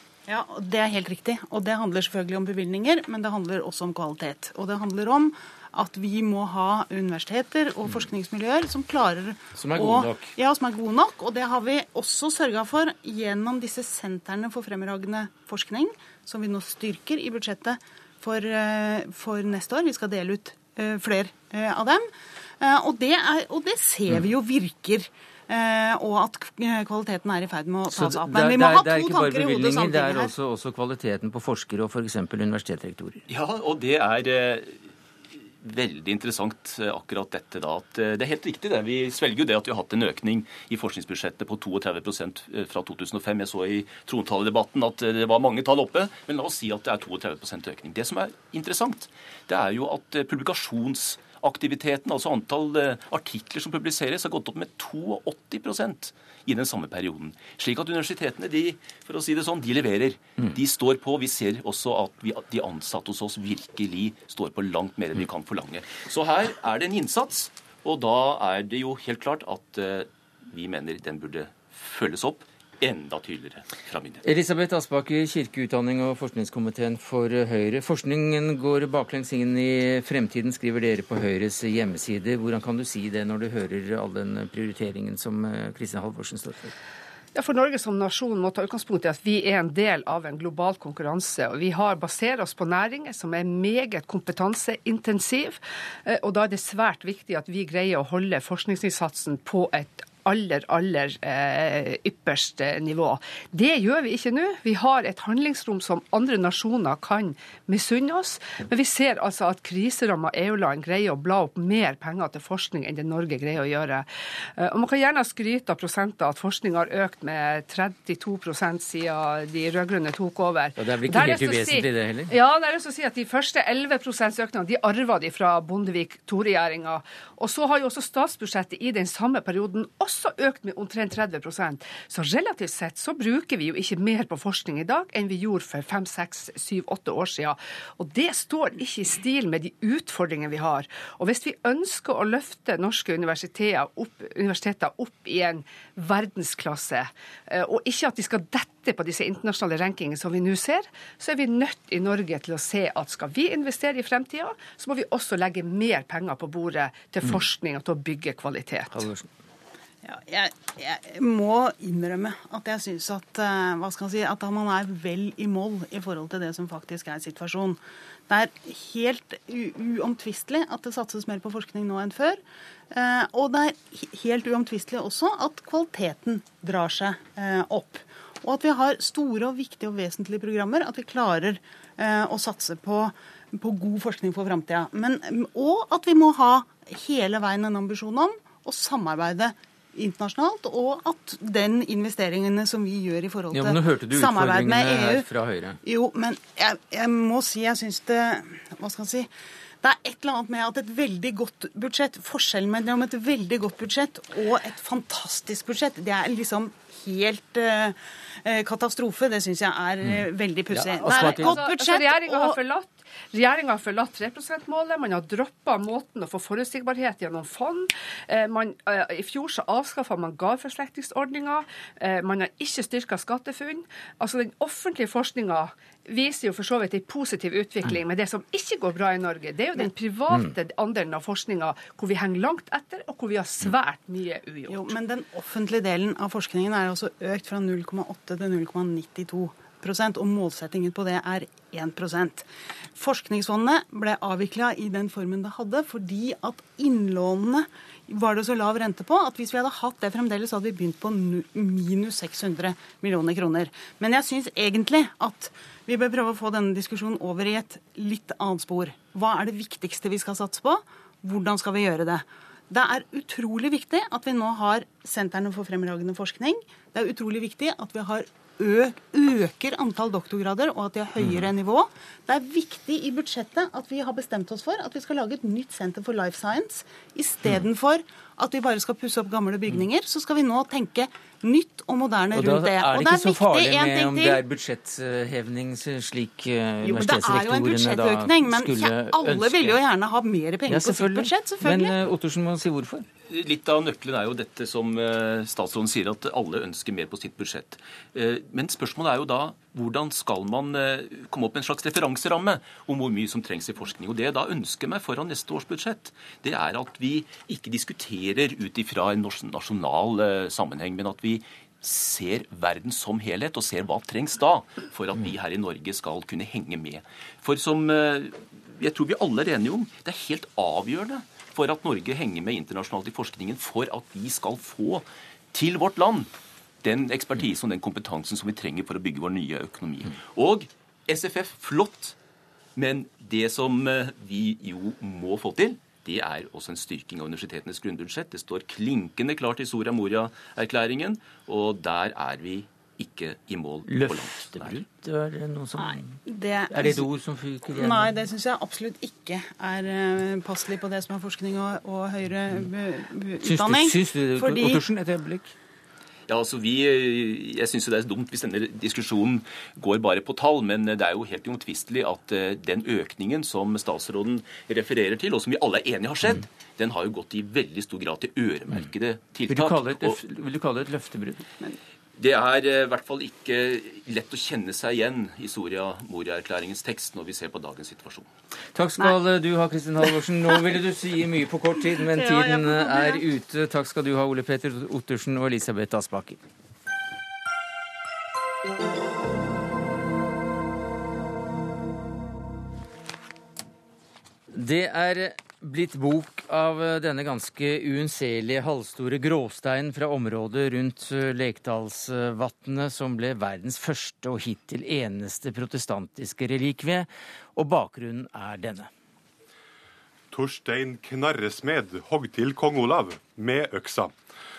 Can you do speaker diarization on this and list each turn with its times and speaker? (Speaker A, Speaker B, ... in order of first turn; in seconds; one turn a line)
Speaker A: 0.3-22.1
Speaker B: 9.6-10.3
Speaker A: 22.6-30.3
Speaker B: 27.9-33.2
Speaker C: 33.3-34.8
Speaker C: 35.6-74.2
Speaker B: 74.2-86.7
Speaker D: 87.3-159.1
Speaker B: 120.8-122.3
Speaker B: 158.9-159.3
Speaker A: 160.1-172.4
Speaker A: 172.9-195.3
Speaker B: 193.5-195.8
Speaker A: 195.8-199.3
Speaker A: 199.8-212.6
Speaker B: 210.1-211.6
Speaker D: 211.1-235.0
Speaker A: 234.7-284.4
Speaker B: 271.2-271.5
Speaker B: 282.3-289.8
Speaker A: 286.8-291.9
Speaker B: 290.7-293.1
Speaker C: 293.3-326.3
Speaker C: 326.8-332.2
Speaker C: 332.8-344.8
Speaker B: 343.9-346.2
Speaker A: 345.8-347.1
Speaker B: 346.7-348.1
Speaker A: 347.7-354.8
Speaker B: 353.4-355.5
Speaker C: 356.3-370.2
Speaker B: 369.5-371.5
Speaker C: 372.2-378.3
Speaker B: 378.8-386.4
Speaker A: 382.1-383.2
Speaker B: 394.5-408.9
Speaker E: 410.3-414.1